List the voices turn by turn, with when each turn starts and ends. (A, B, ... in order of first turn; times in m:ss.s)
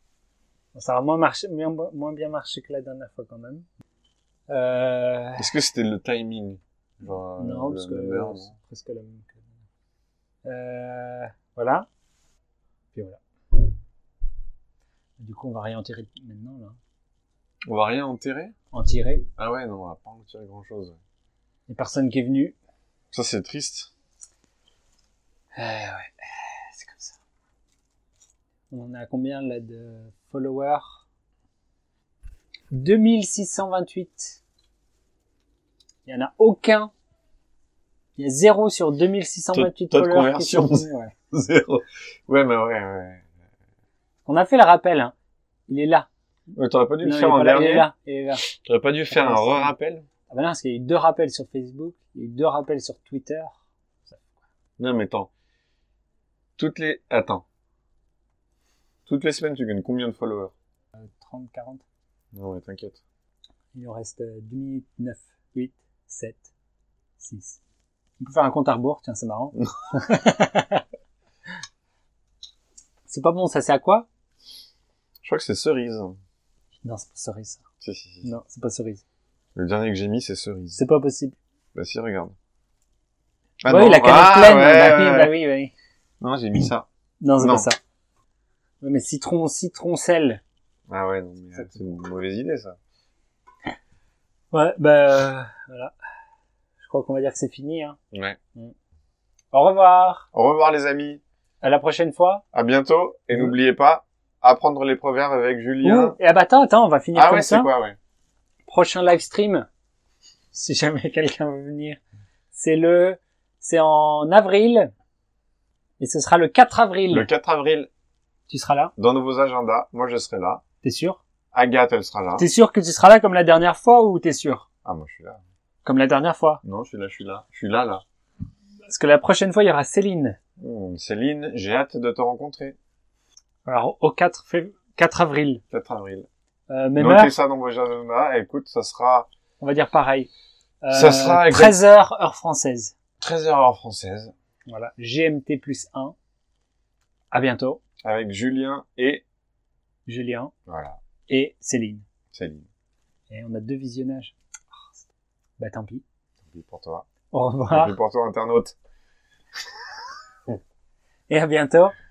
0:00.7-0:03.6 A
0:04.5-0:05.5 A
0:05.4-0:08.5 B
0:07.4-0:09.5 A
0:10.4-0:11.9 A
0:12.9-0:13.2 A
0:15.2-0:16.8 A
0:17.7-0:18.5 B
0:18.7-0:19.3 A
0:19.4-0:21.0 B
0:21.7-0:22.6 A
0:23.1-0:23.9 B
0:25.6-0:27.2 A
0:28.7-0:31.0 A
0:32.7-0:34.4 A
0:36.1-0:36.9 A
0:38.2-0:41.1 A
0:39.5-0:43.2 B
0:44.2-0:45.1 A
0:45.7-0:46.1 A
0:46.5-0:47.9 B
0:47.0-0:48.5 A
0:48.6-0:50.1 B
0:49.1-0:49.7 A
0:50.3-0:54.3 A
0:54.8-0:55.3 B
0:56.6-0:57.4 B
0:59.1-1:00.5 B
1:01.0-1:01.8 A
1:02.3-1:03.0 B
1:03.7-1:06.5 A
1:07.2-1:07.6 A
1:08.2-1:10.8 A
1:13.1-1:14.1 A
1:15.2-1:16.2 B
1:16.8-1:17.6 A
1:17.8-1:18.3 B
1:18.2-1:19.0 A
1:19.6-1:20.8 B
1:20.8-1:21.4 A
1:21.7-1:22.3 B
1:23.6-1:25.3 B
1:23.7-1:25.7 A
1:26.2-1:26.9 B
1:27.2-1:27.8 A
1:27.4-1:27.7 B
1:28.8-1:30.4 A
1:30.9-1:32.8 B
1:34.5-1:35.9 A
1:36.8-1:38.0 A
1:38.1-1:38.4 B
1:39.5-1:40.3 A
1:40.3-1:41.2 B
1:41.6-1:42.4 A
1:42.5-1:46.2 B
1:45.8-1:47.7 A
1:47.2-1:48.0 B
1:48.7-1:49.7 A
1:50.5-1:52.0 A
1:52.5-1:54.9 A
1:56.0-1:57.3 A
1:57.1-1:57.9 B
1:58.5-1:58.9 A
1:59.0-2:00.6 B
2:00.8-2:01.2 A
2:01.5-2:02.5 B
2:02.4-2:04.6 A
2:04.8-2:05.4 B
2:05.8-2:06.6 A
2:06.6-2:08.0 B
2:08.9-2:10.4 A
2:10.6-2:12.8 B
2:13.6-2:15.6 A
2:15.7-2:16.3 B
2:16.7-2:17.3 A
2:17.0-2:19.3 B
2:19.6-2:20.3 A
2:20.8-2:23.0 A
2:20.9-2:21.8 B
2:23.2-2:24.3 B
2:24.7-2:26.2 A
2:27.3-2:27.8 A
2:28.0-2:29.2 B
2:30.1-2:30.5 A
2:30.7-2:31.0 B
2:31.3-2:32.0 A
2:32.3-2:32.7 B
2:33.3-2:35.1 A
2:35.6-2:36.0 A
2:36.4-2:37.1 B
2:37.3-2:38.0 A
2:37.7-2:38.8 B
2:41.3-2:41.9 A